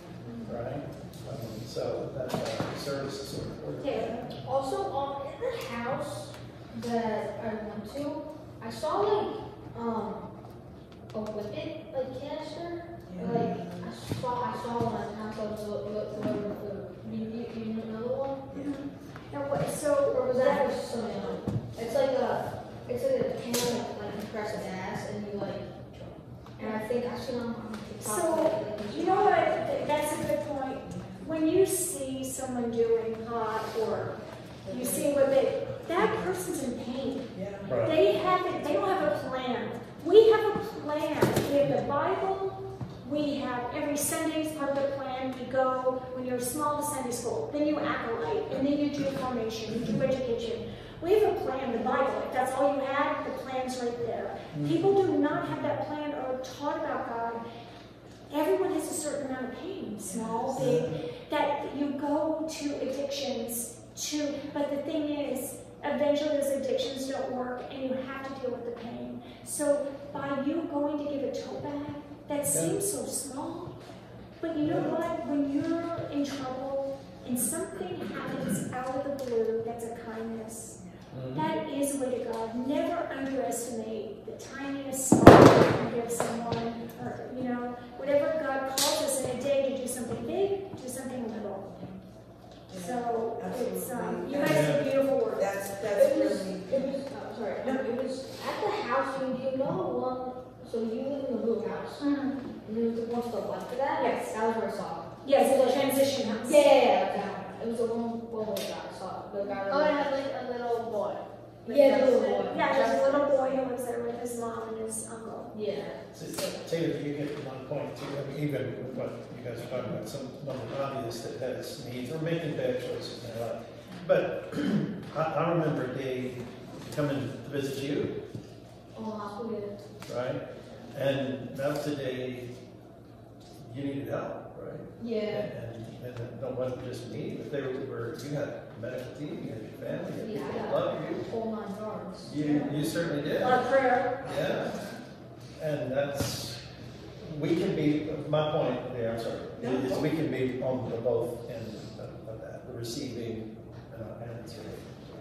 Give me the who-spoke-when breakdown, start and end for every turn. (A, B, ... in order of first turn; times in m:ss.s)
0:00.2-0:00.5 A
0:00.4-0:04.4 B
0:03.8-0:04.2 A
0:04.4-0:10.3 C
0:11.1-0:18.5 C
0:13.1-0:13.9 D
0:18.5-0:21.4 A
0:20.1-0:29.8 C
0:26.6-0:26.8 A
0:28.0-0:34.2 A
0:34.6-0:35.1 D
0:34.7-0:57.4 A
0:36.0-0:36.2 D
0:37.3-0:39.2 D
0:37.7-0:38.0 B
0:54.5-0:55.8 B
0:58.3-1:13.7 A
1:00.5-1:01.0 B
1:12.5-1:12.8 B
1:14.4-1:20.8 A
1:14.6-1:15.0 B
1:21.1-1:21.5 B
1:21.3-1:31.7 A
1:32.7-1:36.9 D
1:32.8-1:35.5 A
1:34.4-1:34.8 B
1:35.9-1:42.0 C
1:37.6-1:37.9 D
1:42.0-1:42.4 A
1:42.6-1:50.2 C
1:44.0-1:44.3 A
1:45.2-1:46.6 A
1:49.7-1:53.5 E
1:51.6-1:52.8 C
1:52.5-1:55.5 A
1:55.5-1:56.0 C
1:56.1-2:08.2 B
2:08.9-2:09.8 C
2:10.1-2:12.5 B
2:13.6-2:21.3 B
2:15.0-2:15.5 C
2:20.1-2:22.8 C
2:22.2-2:23.6 B
2:23.4-2:24.1 A
2:24.2-2:24.8 B
2:25.6-2:26.6 B
2:27.2-2:34.9 B
2:29.6-2:30.1 D